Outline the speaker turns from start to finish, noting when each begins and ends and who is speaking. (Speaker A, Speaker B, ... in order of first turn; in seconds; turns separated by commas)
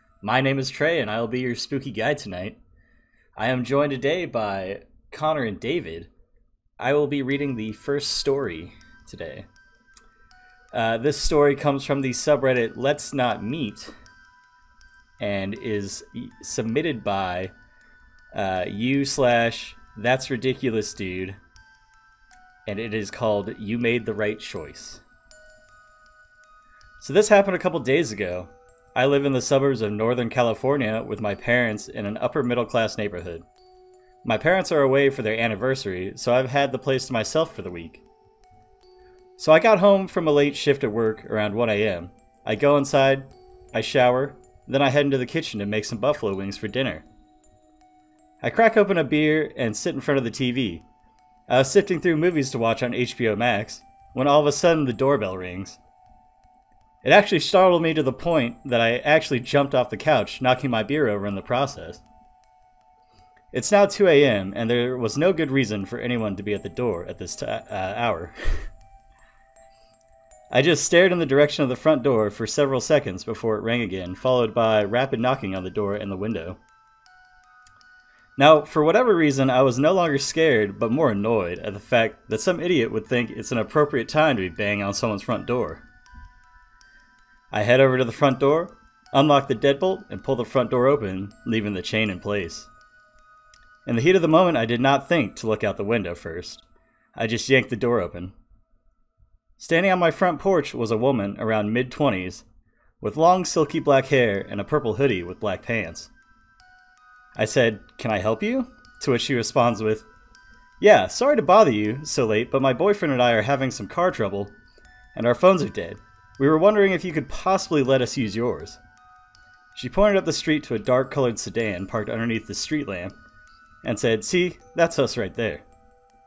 Speaker A: 0.2-2.6, Speaker A: 3.4-6.1, Speaker A: 6.8-9.5, Speaker A: 10.7-13.9, Speaker A: 15.2-17.5, Speaker A: 18.3-21.4, Speaker A: 22.6-25.0, Speaker A: 27.0-33.4, Speaker A: 34.2-38.0, Speaker A: 39.4-47.0, Speaker A: 48.4-50.8, Speaker A: 51.5-55.8, Speaker A: 57.0-62.0, Speaker A: 63.5-68.3, Speaker A: 70.5-76.6, Speaker A: 78.4-85.8, Speaker A: 87.5-92.7, Speaker A: 93.8-98.3, Speaker A: 99.6-102.4, Speaker A: 103.0-106.1, Speaker A: 107.3-110.1, Speaker A: 110.8-114.5, Speaker A: 115.1-118.8, Speaker A: 119.7-123.1, Speaker A: 123.8-125.6